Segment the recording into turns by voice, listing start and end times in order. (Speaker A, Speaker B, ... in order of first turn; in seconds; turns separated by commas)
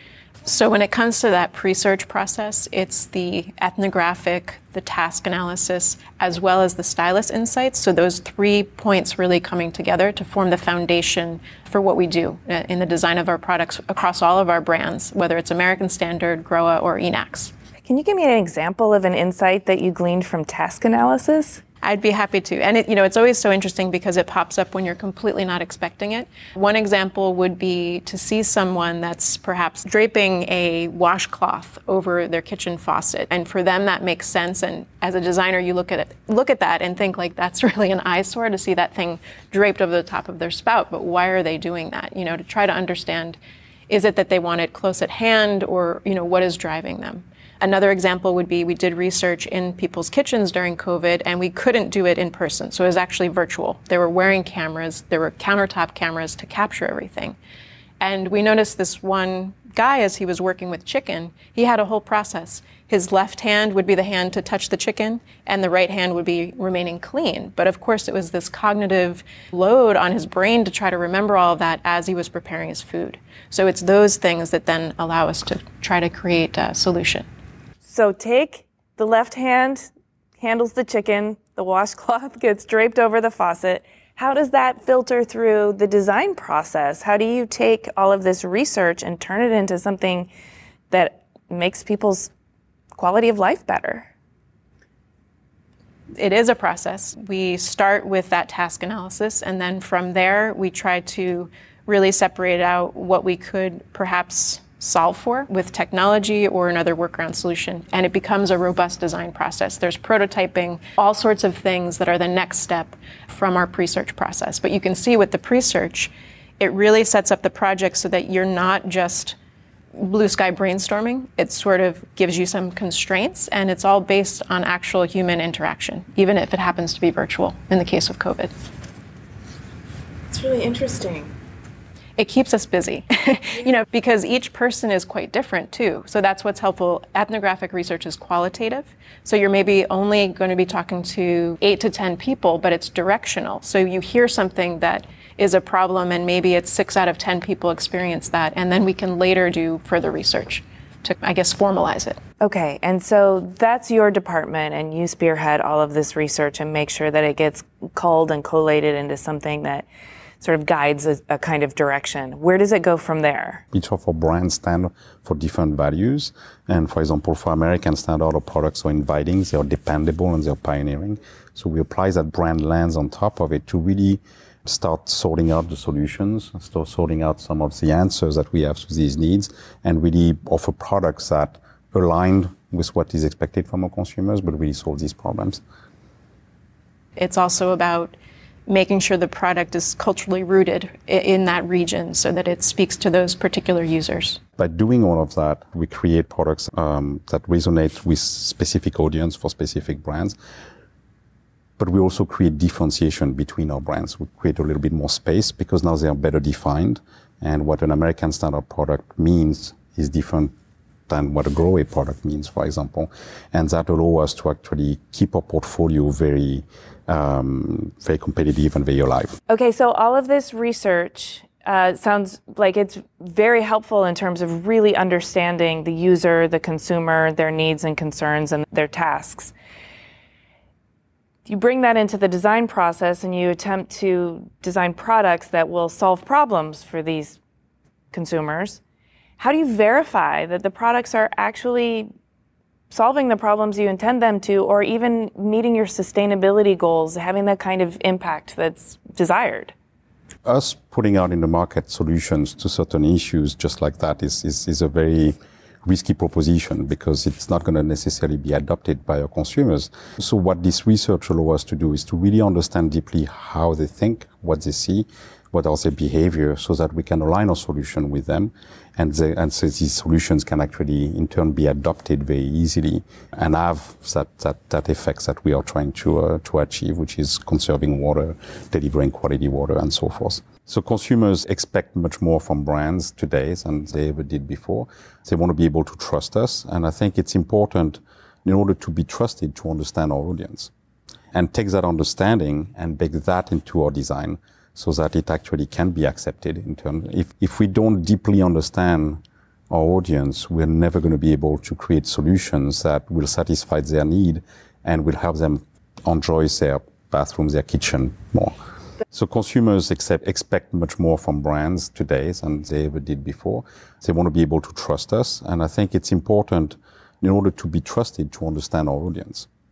Speaker A: 0.4-17.5, Speaker B: 17.8-21.6, Speaker A: 21.8-43.4, Speaker A: 43.9-57.4, Speaker A: 58.0-77.2, Speaker B: 77.8-90.3, Speaker B: 90.9-92.3, Speaker B: 92.9-94.1, Speaker A: 96.1-119.3, Speaker A: 120.0-128.5, Speaker B: 130.3-131.3, Speaker A: 132.2-152.2, Speaker B: 152.4-159.8, Speaker B: 160.4-163.6, Speaker C: 163.7-185.6, Speaker A: 187.2-188.2, Speaker A: 188.7-194.4, Speaker C: 194.6-200.3, Speaker C: 201.8-210.5, Speaker C: 211.1-219.4, Speaker B: 219.5-229.5, Speaker B: 231.4-237.4, Speaker B: 238.1-238.8, Speaker B: 239.4-242.1, Speaker B: 242.9-249.7, Speaker C: 250.4-290.7, Speaker C: 291.3-308.5, Speaker C: 309.1-319.5